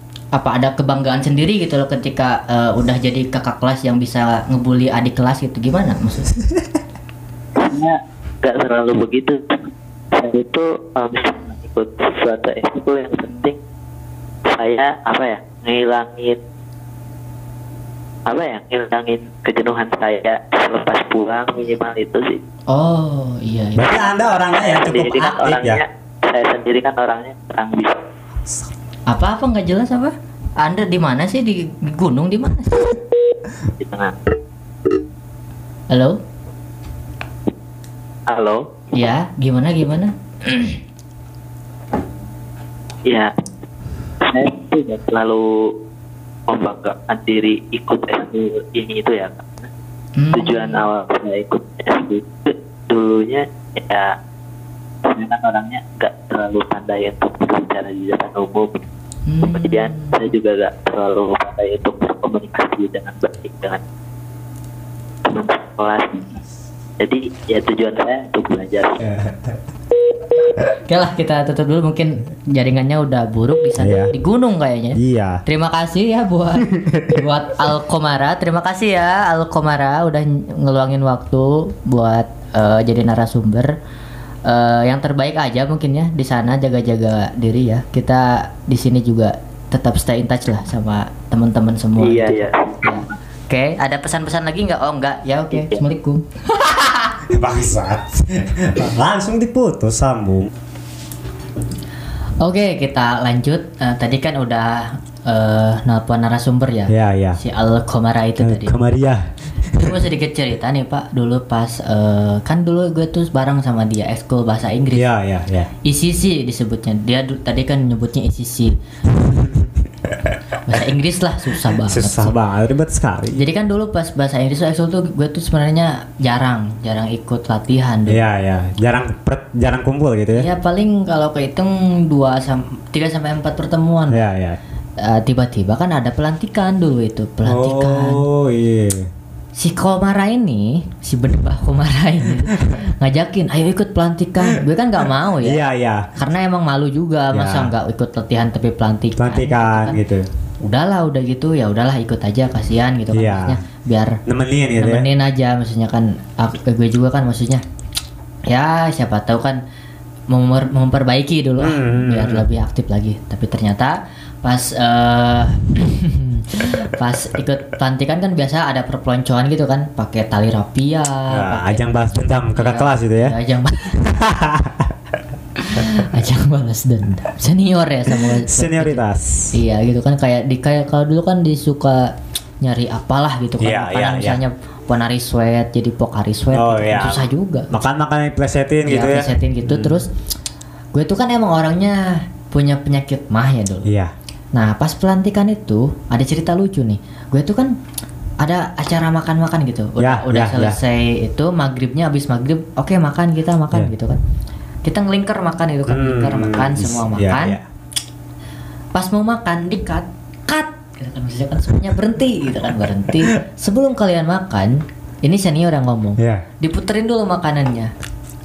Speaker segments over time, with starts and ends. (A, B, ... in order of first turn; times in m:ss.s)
0:00.3-0:06.4 A
0:07.6-0:13.6 B
0:14.4-0:16.4 B
0:18.2-0:22.4 B
0:22.7-0:24.0 A
0:23.7-0:25.8 C
0:24.5-0:28.0 B
0:29.1-0:32.9 A
0:33.8-0:34.1 B
0:35.9-0:36.2 A
0:38.3-0:38.6 B
0:38.9-0:40.8 A
0:43.0-0:43.3 B
0:44.2-0:45.7 B
0:46.5-0:49.7 B
0:50.2-0:50.9 A
0:50.3-0:54.1 B
0:55.0-0:58.8 B
0:59.3-1:00.3 A
0:59.4-1:03.8 B
1:05.2-1:06.4 B
1:07.0-1:09.0 B
1:09.0-1:09.5 C
1:10.7-1:23.7 A
1:13.8-1:14.1 C
1:15.0-1:15.4 C
1:16.7-1:17.2 C
1:24.4-1:37.1 A
1:32.0-1:33.1 B
1:37.2-1:40.5 C
1:42.4-1:48.8 A
1:46.9-1:47.4 C
1:48.4-1:50.0 C
1:49.7-1:55.1 A
1:54.9-1:55.7 C
1:55.8-1:58.8 A
1:59.2-2:00.3 C
2:00.6-2:02.3 A
2:01.6-2:03.4 C
2:03.3-2:08.2 A
2:08.1-2:10.5 C
2:10.4-2:14.2 A
2:14.1-2:14.6 C
2:15.0-2:18.2 A
2:17.4-2:19.1 C
2:19.6-2:25.6 A
2:22.5-2:22.8 C
2:25.4-2:26.1 C
2:26.2-2:30.0 A
2:27.3-2:27.7 C
2:29.2-2:30.3 C
2:30.6-2:34.2 A
2:33.1-2:33.6 C
2:34.3-2:35.1 C
2:34.8-2:37.6 A
2:38.5-2:39.6 A
2:40.3-2:54.1 A
2:41.6-2:42.4 C
2:51.3-2:53.4 C
2:54.0-2:54.9 C
2:55.6-2:59.0 A
2:58.1-2:59.5 C
2:59.5-3:07.7 A
3:03.6-3:04.4 C
3:06.5-3:10.0 C
3:08.8-3:10.1 A
3:10.9-3:13.9 A
3:13.8-3:14.1 C
3:14.5-3:17.7 A
3:18.4-3:24.2 A
3:20.0-3:20.8 C
3:24.8-3:27.6 A
3:25.9-3:27.6 C
3:28.9-3:37.9 A
3:36.2-3:36.4 C